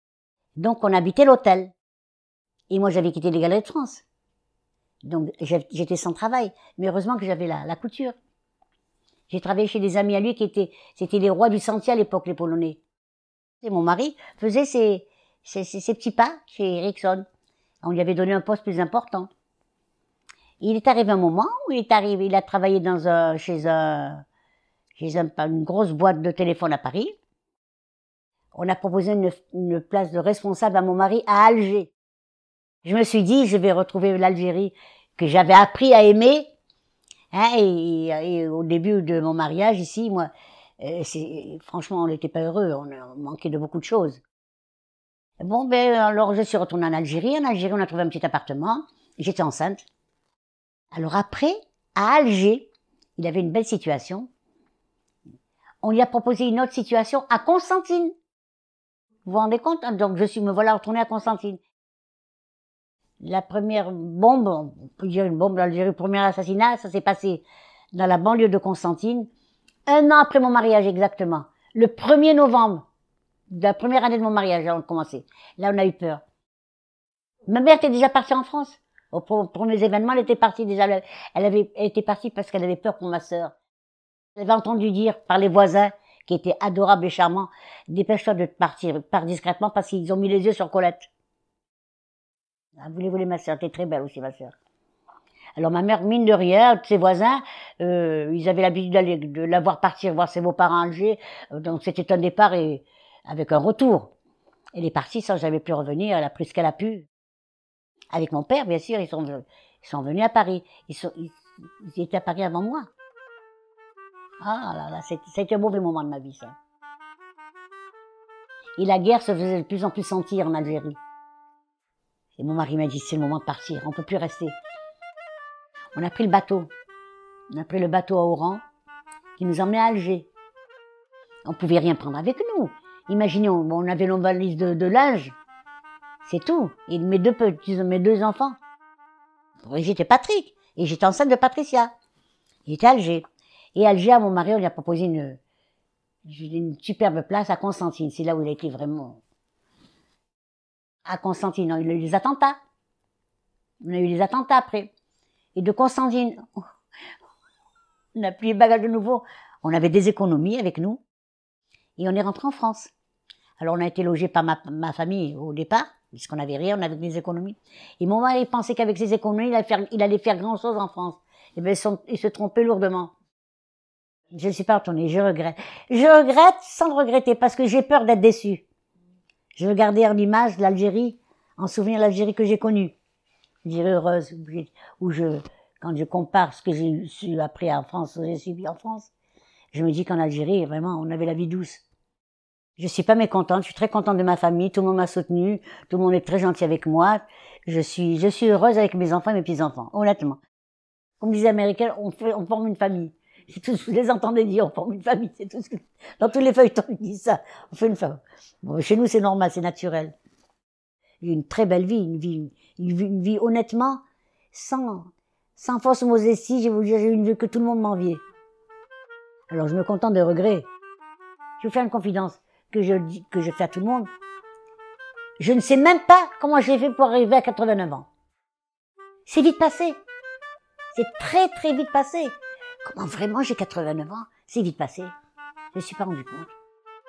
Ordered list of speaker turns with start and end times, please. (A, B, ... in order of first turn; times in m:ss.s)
0:00.6-0:01.7 A
0:02.7-0:04.0 A
0:05.0-0:08.2 A
0:09.3-0:12.8 A
0:13.6-0:17.2 A
0:17.8-0:19.3 A
0:20.6-0:24.2 A
0:25.0-0:27.2 A
0:28.5-0:31.9 A
0:32.8-0:36.5 A
0:37.3-0:40.3 A
0:40.8-0:44.2 A
0:45.4-0:49.8 A
0:50.9-0:54.3 A
0:55.8-0:58.1 A
0:59.3-1:01.6 A
1:03.2-1:09.3 A
1:09.9-1:12.8 A
1:13.5-1:16.2 A
1:17.5-1:23.6 A
1:24.4-1:31.1 A
1:32.8-1:34.5 A
1:35.6-1:44.1 A
1:44.8-1:47.1 A
1:48.1-1:52.9 A
1:54.4-1:56.6 A
1:58.8-2:01.0 A
2:02.4-2:04.6 A
2:06.0-2:06.7 A
2:07.5-2:08.6 A
2:09.4-2:10.3 A
2:11.5-2:15.4 A
2:16.2-2:18.6 A
2:19.7-2:21.9 A
2:22.7-2:25.4 A
2:26.2-2:29.2 A
2:31.1-2:32.6 A
2:33.8-2:34.9 A
2:35.6-2:36.5 A
2:38.2-2:41.0 A
2:42.0-2:42.9 A
2:43.6-2:53.1 A
2:54.3-2:58.6 A
2:59.6-3:02.9 A
3:03.6-3:09.1 A
3:09.7-3:11.8 A
3:12.8-3:20.4 A
3:21.2-3:30.2 A
3:31.2-3:38.2 A
3:39.5-3:40.7 A
3:41.6-3:44.1 A
3:45.4-3:48.1 A
3:49.3-3:50.0 A
3:50.9-3:55.1 A
3:55.7-3:56.5 A